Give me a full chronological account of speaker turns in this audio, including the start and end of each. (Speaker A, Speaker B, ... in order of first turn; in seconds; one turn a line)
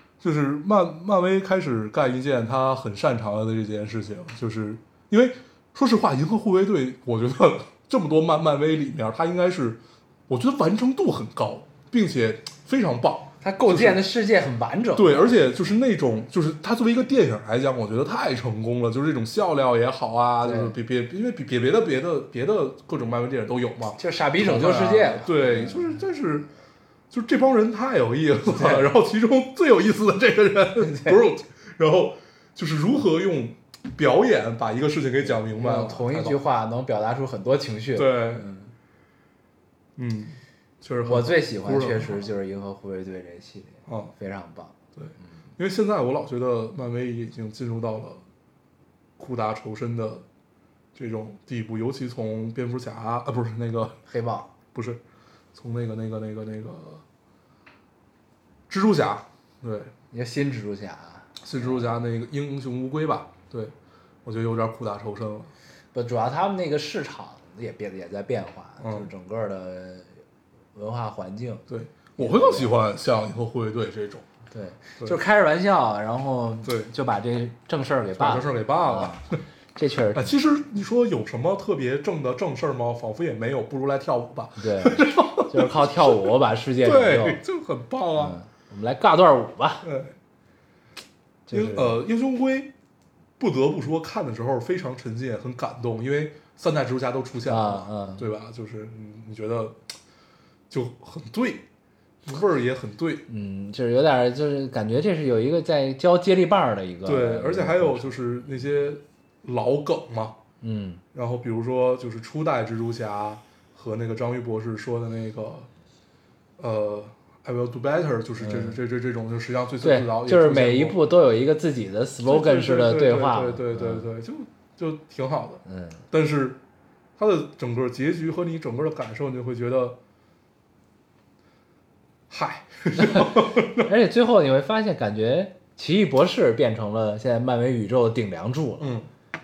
Speaker A: 0.2-14.0
Speaker B: 13.4-15.4
Speaker A: 14.9-26.5
Speaker B: 20.4-20.8
Speaker B: 24.0-26.0
Speaker A: 27.1-36.4
Speaker B: 28.5-28.9
Speaker B: 30.8-31.2
Speaker B: 35.5-38.7
Speaker A: 38.0-38.5
Speaker A: 40.0-42.3
Speaker B: 41.0-44.7
Speaker A: 43.9-44.1
Speaker A: 45.0-48.2
Speaker A: 49.2-50.2
Speaker A: 50.9-54.0
Speaker B: 54.1-54.5
Speaker A: 54.7-55.0
Speaker A: 55.5-57.0
Speaker A: 58.7-59.9
Speaker B: 60.1-61.8
Speaker A: 61.4-65.5
Speaker B: 65.9-70.1
Speaker A: 68.8-69.1
Speaker B: 70.7-72.7
Speaker A: 71.7-74.2
Speaker B: 74.5-80.4
Speaker A: 76.6-76.9
Speaker A: 78.2-79.4
Speaker A: 80.1-86.3
Speaker B: 84.6-87.4
Speaker A: 86.8-88.4
Speaker B: 88.2-89.8
Speaker A: 89.8-90.1
Speaker B: 91.5-92.0
Speaker A: 91.5-92.7
Speaker A: 93.4-99.8
Speaker B: 97.5-98.3
Speaker A: 100.7-101.6
Speaker A: 102.2-103.2
Speaker B: 103.3-108.2
Speaker A: 107.0-110.4
Speaker B: 110.6-111.0
Speaker A: 111.1-115.7
Speaker A: 116.6-121.0
Speaker B: 118.4-118.8
Speaker B: 119.8-124.1
Speaker A: 122.2-126.6
Speaker B: 125.6-126.0
Speaker A: 127.2-130.0
Speaker A: 132.3-133.9
Speaker B: 133.0-139.0
Speaker A: 138.8-139.1